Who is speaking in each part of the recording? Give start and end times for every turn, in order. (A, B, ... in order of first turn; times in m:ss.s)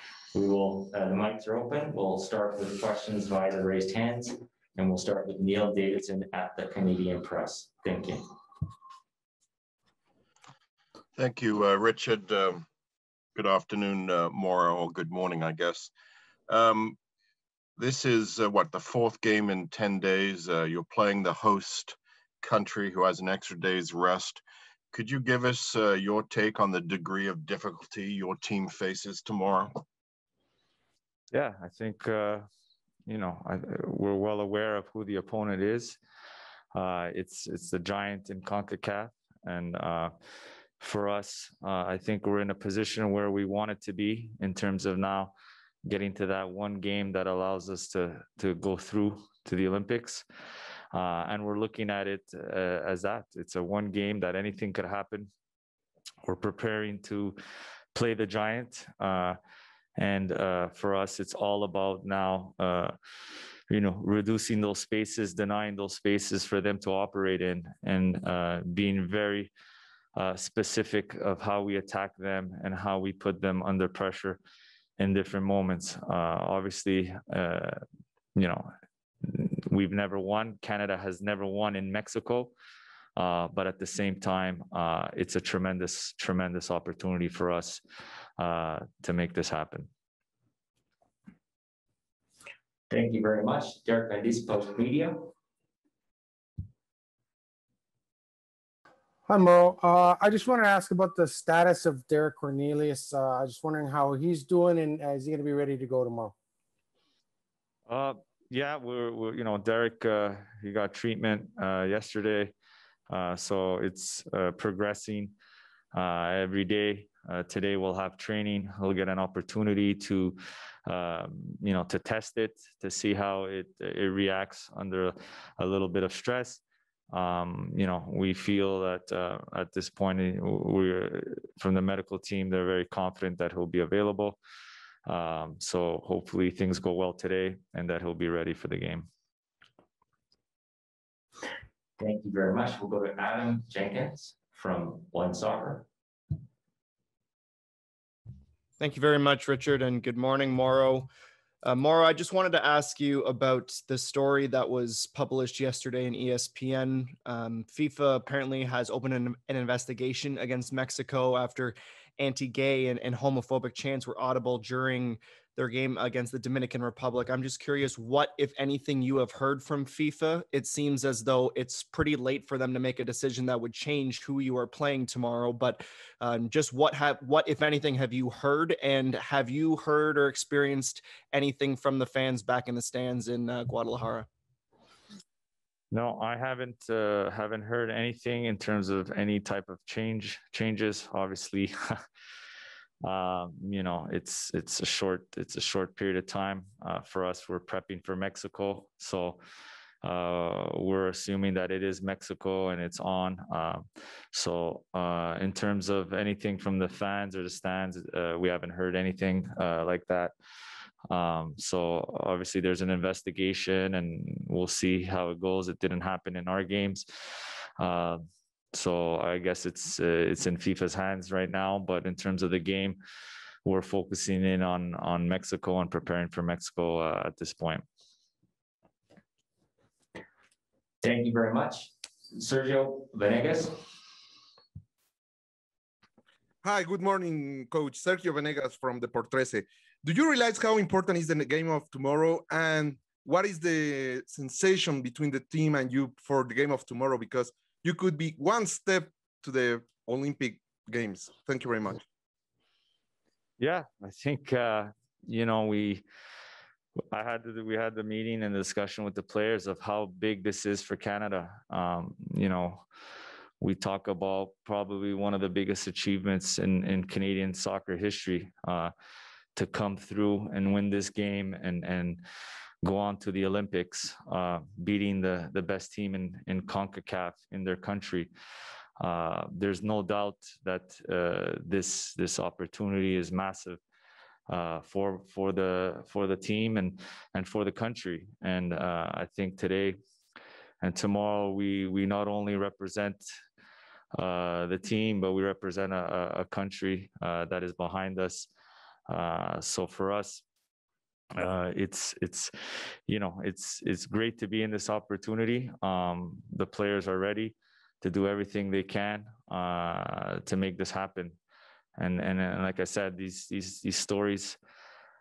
0:00.3-0:08.2 A
0:11.2-0:12.6 B
0:13.4-0:15.9 B
0:16.5-0:17.0 B
0:17.8-0:29.8 B
0:31.3-0:32.5 C
0:33.1-0:36.0 C
0:36.7-0:40.1 C
0:40.8-0:45.3 C
0:45.9-0:50.2 C
0:50.9-0:55.3 C
0:56.2-0:57.4 C
0:57.9-0:59.4 C
1:00.0-1:03.0 C
1:03.7-1:09.5 C
1:10.2-1:14.4 C
1:15.0-1:17.8 C
1:18.4-1:18.7 C
1:19.2-1:22.5 C
1:23.2-1:27.8 C
1:28.4-1:29.9 C
1:32.9-1:35.3 A
1:39.3-1:46.3 D
1:47.9-1:52.5 C
1:53.1-1:55.3 C
1:55.9-2:14.4 C
2:15.1-2:19.1 C
2:22.0-2:25.9 A
2:28.8-2:31.1 E
2:31.6-3:04.3 E
3:05.9-3:12.0 C
3:13.0-3:19.4 C
3:20.0-3:30.3 C
3:31.1-3:37.1 C
3:37.8-3:43.0 C
3:43.6-3:47.8 C
3:51.0-3:53.8 A
3:56.6-4:12.0 F
4:13.6-4:16.0 C
4:17.1-4:22.8 C
4:23.6-4:28.9 C
4:29.6-4:32.2 C
4:32.8-4:38.3 C
4:39.0-4:43.8 C
4:44.5-4:50.0 C
4:50.8-4:53.3 C
4:54.1-4:58.5 C
4:59.1-5:00.4 C
5:01.4-5:02.5 C
5:03.1-5:11.4 C
5:12.0-5:14.6 C